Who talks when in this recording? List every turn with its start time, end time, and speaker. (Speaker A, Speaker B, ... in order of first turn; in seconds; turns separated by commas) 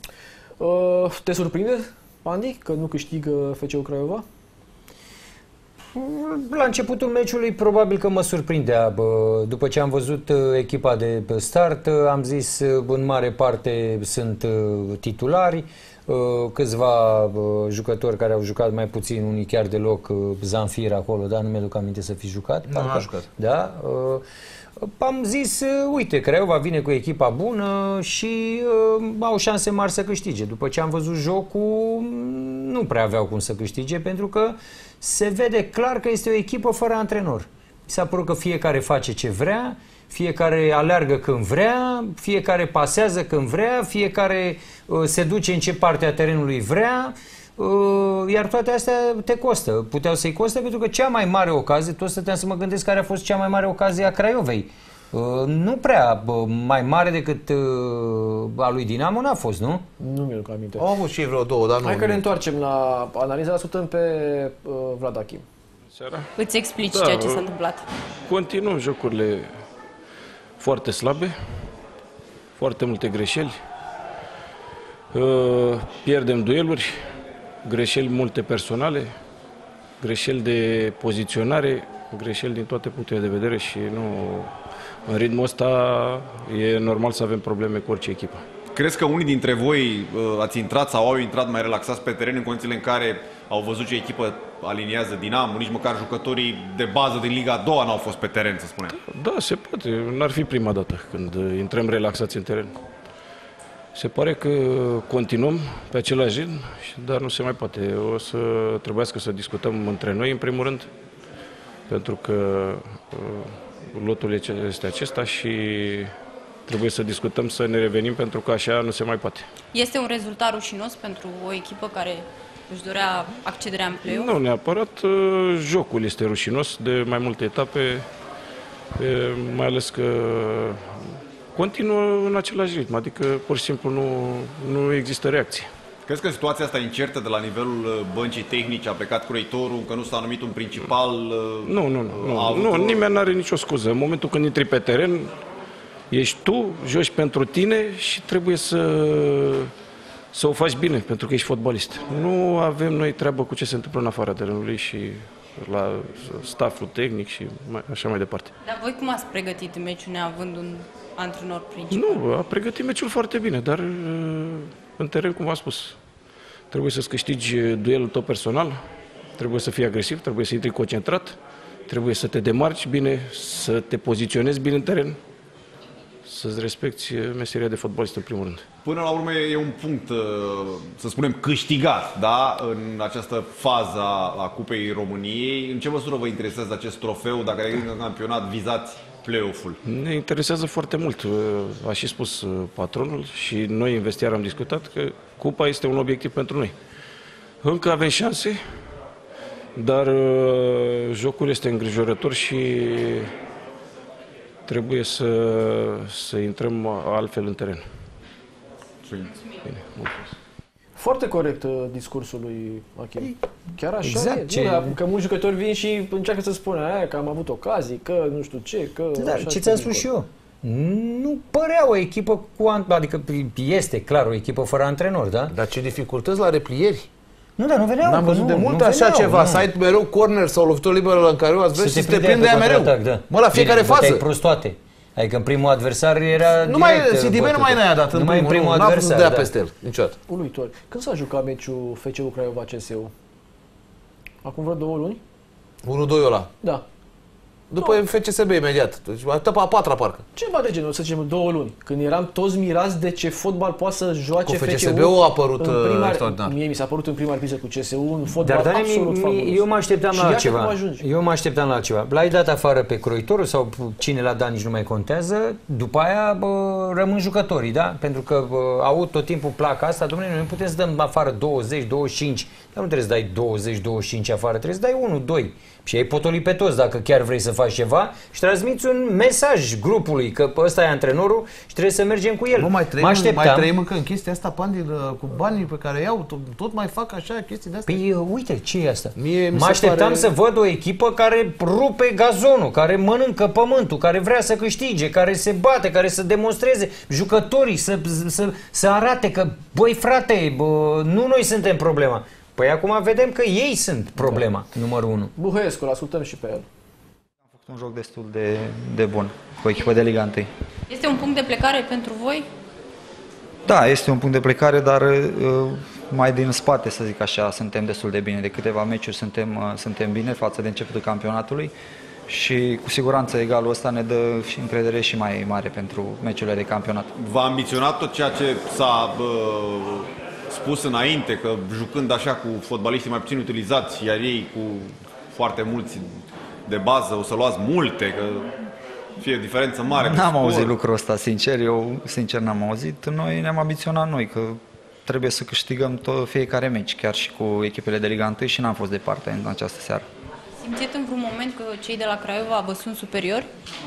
Speaker A: 0.6-4.2, Speaker B: 5.9-24.2, Speaker C: 22.7-23.3, Speaker B: 24.8-59.9, Speaker A: 60.0-60.9, Speaker C: 60.8-62.2, Speaker A: 61.8-65.5, Speaker D: 65.9-66.3, Speaker E: 66.4-67.8, Speaker D: 66.9-67.5, Speaker D: 68.3-69.5, Speaker D: 70.6-71.3, Speaker D: 72.6-73.6, Speaker D: 75.1-77.0, Speaker D: 77.7-79.1, Speaker D: 80.0-84.5, Speaker D: 85.1-88.4, Speaker F: 88.7-99.0, Speaker D: 99.0-102.7, Speaker D: 103.9-110.9, Speaker D: 111.9-116.1, Speaker D: 116.7-119.5, Speaker E: 119.7-124.3, Speaker D: 124.0-128.1, Speaker D: 129.0-131.0, Speaker D: 131.6-135.7, Speaker F: 136.1-143.1, Speaker D: 141.7-145.3, Speaker D: 146.1-149.7, Speaker D: 150.3-158.5, Speaker E: 158.6-162.2, Speaker D: 161.9-166.0, Speaker D: 166.7-168.8, Speaker D: 169.4-175.2, Speaker D: 176.2-178.7, Speaker F: 178.8-189.8, Speaker D: 189.8-196.8, Speaker D: 197.6-198.6, Speaker D: 199.8-203.3, Speaker D: 204.7-207.8, Speaker F: 209.1-209.4, Speaker D: 209.7-210.3, Speaker A: 211.0-220.1, Speaker B: 214.0-214.9, Speaker B: 219.2-225.5, Speaker C: 225.5-227.1, Speaker B: 227.6-229.7, Speaker C: 228.0-234.2, Speaker B: 231.8-239.5, Speaker C: 236.6-240.2, Speaker A: 240.3-243.1, Speaker A: 244.4-245.2, Speaker C: 245.8-246.5, Speaker C: 247.7-250.2, Speaker A: 250.3-261.1, Speaker C: 254.4-256.6, Speaker B: 258.4-283.7, Speaker C: 282.6-288.0, Speaker B: 287.9-305.3, Speaker C: 289.2-290.3, Speaker A: 304.2-304.4, Speaker A: 305.4-306.7, Speaker G: 307.6-310.5, Speaker E: 310.9-312.4, Speaker G: 313.7-321.7, Speaker G: 322.3-327.1, Speaker F: 327.2-336.1, Speaker F: 336.7-338.5, Speaker F: 339.2-340.8, Speaker G: 339.9-350.1, Speaker E: 350.6-353.5